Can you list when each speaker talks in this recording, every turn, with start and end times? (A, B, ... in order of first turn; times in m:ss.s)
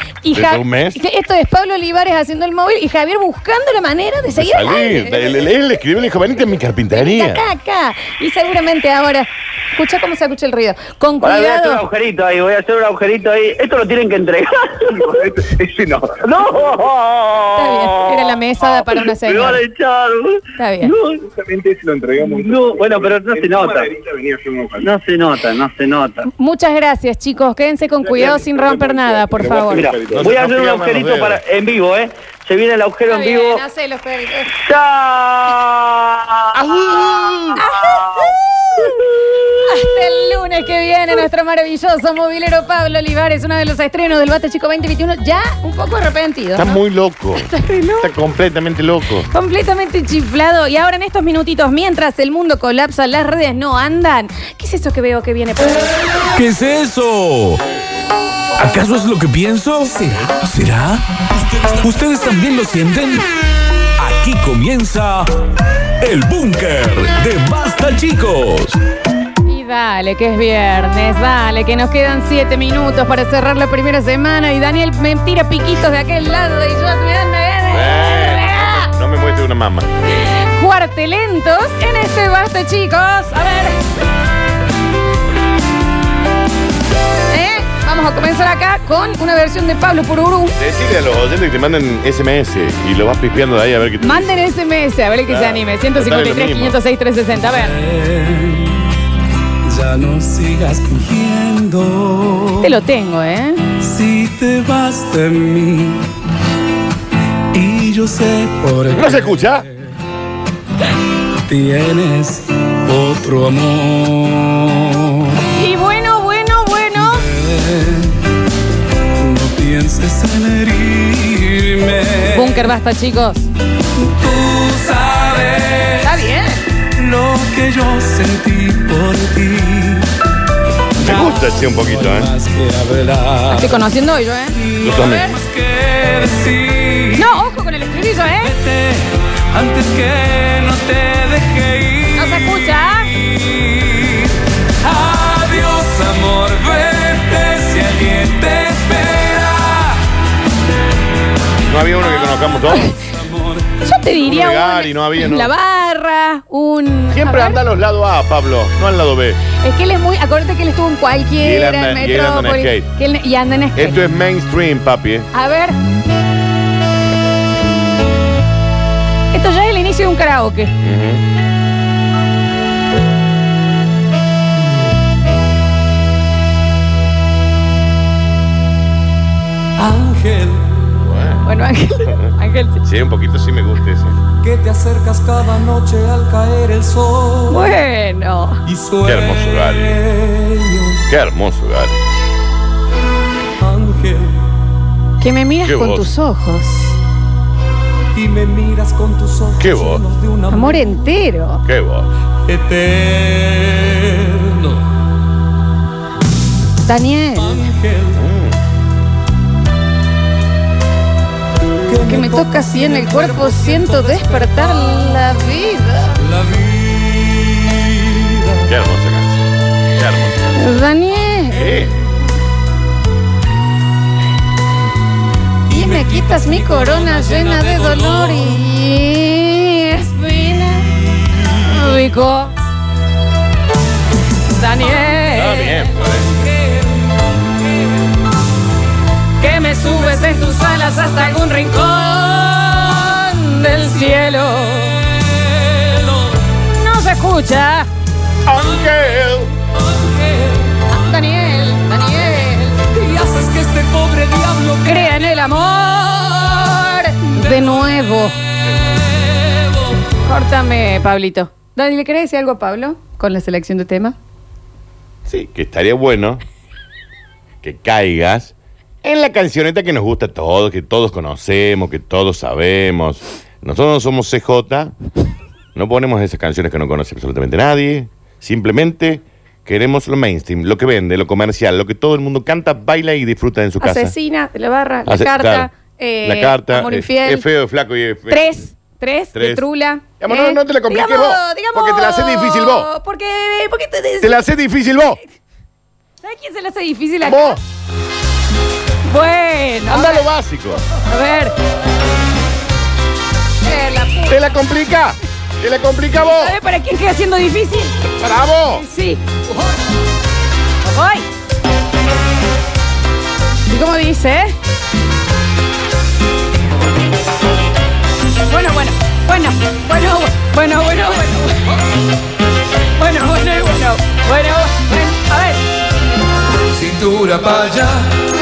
0:00.2-0:05.2 A
0:00.3-0:01.0 B
0:04.4-0:07.4 B
0:06.9-0:11.8 A
0:11.2-0:15.2 C
0:15.0-0:16.2 D
0:16.2-0:21.2 C
0:17.6-0:19.6 A
0:20.6-0:20.9 A
0:21.2-0:24.9 D
0:22.2-0:23.9 C
0:24.8-0:26.3 C
0:26.3-0:29.9 A
0:28.0-0:30.3 D
0:29.7-0:33.6 C
0:30.1-0:31.4 B
0:33.0-0:34.5 A
0:34.6-0:36.6 C
0:36.5-0:37.6 B
0:37.5-0:38.2 A
0:37.8-0:39.4 C
0:39.7-0:46.8 A
0:46.6-0:47.5 B
0:47.3-0:48.2 A
0:48.0-0:49.3 B
0:49.3-0:55.9 A
0:56.3-0:57.6 E
0:58.6-1:03.2 E
1:04.0-1:05.3 E
1:06.0-1:08.8 E
1:09.4-1:18.9 A
1:17.7-1:19.9 B
1:20.2-1:23.8 A
1:27.3-1:30.6 A
1:30.6-1:34.3 B
1:34.0-1:37.8 A
1:35.3-1:36.8 B
1:37.4-1:38.8 F
1:39.6-1:42.7 F
1:42.6-1:43.6 A
1:43.8-1:46.0 F
1:47.5-1:49.6 F
1:48.9-1:49.6 B
1:51.5-1:55.4 F
1:55.5-1:57.3 A
1:57.0-1:58.2 F
1:59.2-2:02.7 F
2:02.2-2:03.5 A
2:04.0-2:06.2 F
2:06.0-2:06.6 A
2:07.0-2:10.1 F
2:11.0-2:13.9 F
2:11.0-2:12.3 B
2:13.5-2:15.4 A
2:14.5-2:17.4 F
2:14.8-2:15.3 B
2:17.1-2:18.6 A
2:18.4-2:30.0 F
2:22.1-2:23.1 A
2:31.6-2:32.9 B
2:32.7-2:32.9 A
2:33.1-2:33.7 F
2:33.8-2:37.6 A
2:34.2-2:35.5 B
2:37.1-2:39.4 B
2:39.5-2:44.0 A
2:41.4-2:42.9 B
2:43.8-2:45.3 B
2:45.3-2:45.8 A
2:49.3-2:50.7 A
2:50.8-2:51.2 B
2:59.8-3:00.8 F
3:01.0-3:01.5 B
3:01.4-3:02.8 A
3:02.1-3:04.2 B
3:04.4-3:07.7 F
3:07.5-3:08.6 A
3:08.6-3:11.0 F
3:09.0-3:10.0 B
3:11.1-3:12.0 B
3:13.6-3:14.4 F
3:15.2-3:16.9 A
3:15.6-3:16.1 B
3:18.1-3:21.2 F
3:19.6-3:20.0 B
3:20.5-3:21.6 A
3:21.6-3:22.1 B
3:22.4-3:24.8 F
3:26.8-3:27.6 A
3:27.4-3:28.2 F
3:28.1-3:28.6 B
3:31.9-3:35.2 F
3:32.0-3:36.2 A
3:36.2-3:38.7 F
3:38.7-3:40.6 B
3:40.5-3:41.8 A
3:41.5-3:42.0 B
3:45.7-3:48.6 F
3:45.7-3:51.0 A
3:51.2-3:52.0 F
3:51.5-3:52.5 A
3:54.5-3:55.9 A
3:55.3-3:56.3 B
3:56.5-3:57.0 F
3:59.4-4:05.0 A
4:05.6-4:06.3 F
4:06.6-4:07.9 A
4:08.4-4:09.5 B
4:10.1-4:10.8 F
4:10.8-4:12.8 A
4:12.9-4:15.2 F
4:14.8-4:18.3 A
4:20.2-4:24.2 A
4:25.3-4:26.4 B
4:27.6-4:34.9 B
4:35.7-4:44.1 B
4:43.8-4:47.5 A
4:45.1-4:45.7 B
4:46.2-4:48.6 B
4:48.3-4:54.4 A
4:49.3-4:49.6 B
4:50.2-4:52.9 B
4:54.2-4:55.2 B
4:56.2-4:57.6 A
4:57.2-4:57.6 B
4:59.0-5:00.3 A
4:59.9-5:00.8 B
5:00.9-5:01.5 A
5:03.6-5:04.5 A
5:04.3-5:06.5 B
5:06.2-5:08.1 A
5:08.1-5:08.8 B
5:08.7-5:09.2 A
5:10.8-5:11.2 A
5:13.7-5:14.5 A
5:18.5-5:21.7 A
5:23.0-5:25.6 A
5:26.7-5:28.1 F